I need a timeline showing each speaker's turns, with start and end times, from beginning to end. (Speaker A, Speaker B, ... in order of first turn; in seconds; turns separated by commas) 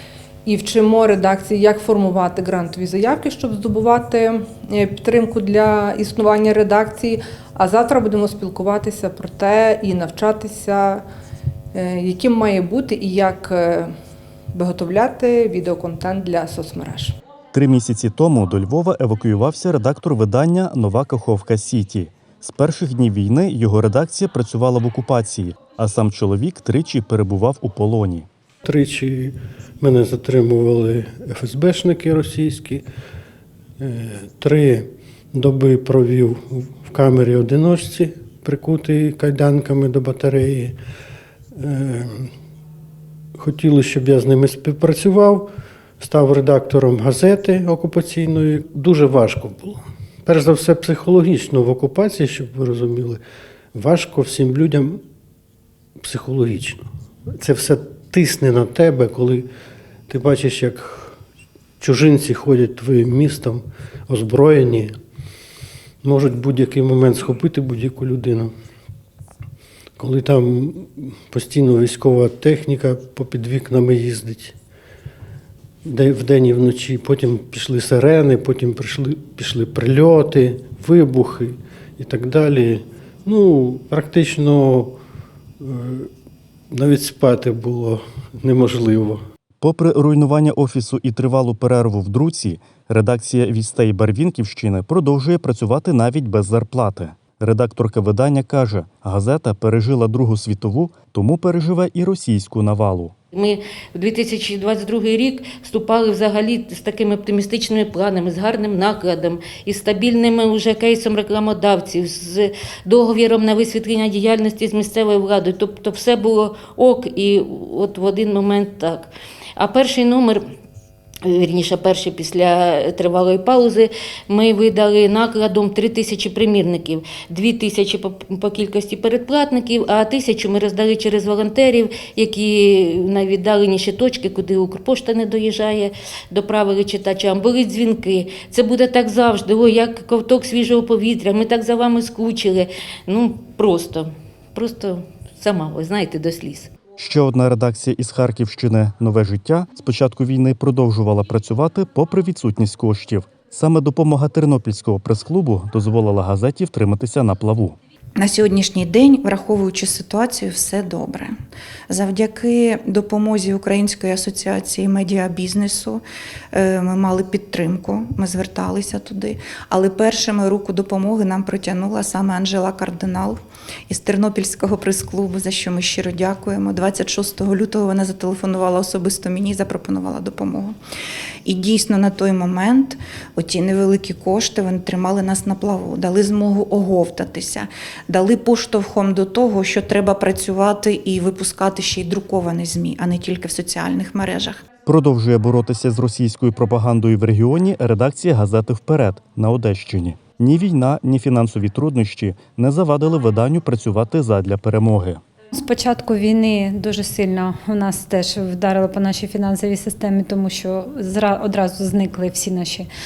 Speaker A: 0.5-11.0, Speaker A: 11.7-13.9, Speaker A: 14.5-17.1, Speaker B: 17.5-28.3, Speaker C: 28.6-32.8, Speaker C: 33.8-40.8, Speaker C: 41.5-42.3, Speaker C: 43.4-45.5, Speaker C: 46.0-53.2, Speaker C: 53.7-55.0, Speaker C: 56.0-56.8, Speaker C: 57.4-59.5, Speaker C: 60.1-61.2, Speaker C: 61.8-64.9, Speaker C: 66.0-68.5, Speaker C: 70.0-74.5, Speaker C: 75.8-85.0, Speaker C: 85.6-86.1, Speaker C: 86.7-89.2, Speaker B: 89.6-103.1, Speaker D: 103.3-120.4, Speaker D: 121.2-146.7, Speaker B: 147.0-157.8, Speaker E: 158.2-161.3, Speaker E: 161.9-180.7, Speaker E: 181.4-194.6, Speaker B: 194.8-205.2, Speaker F: 205.5-212.9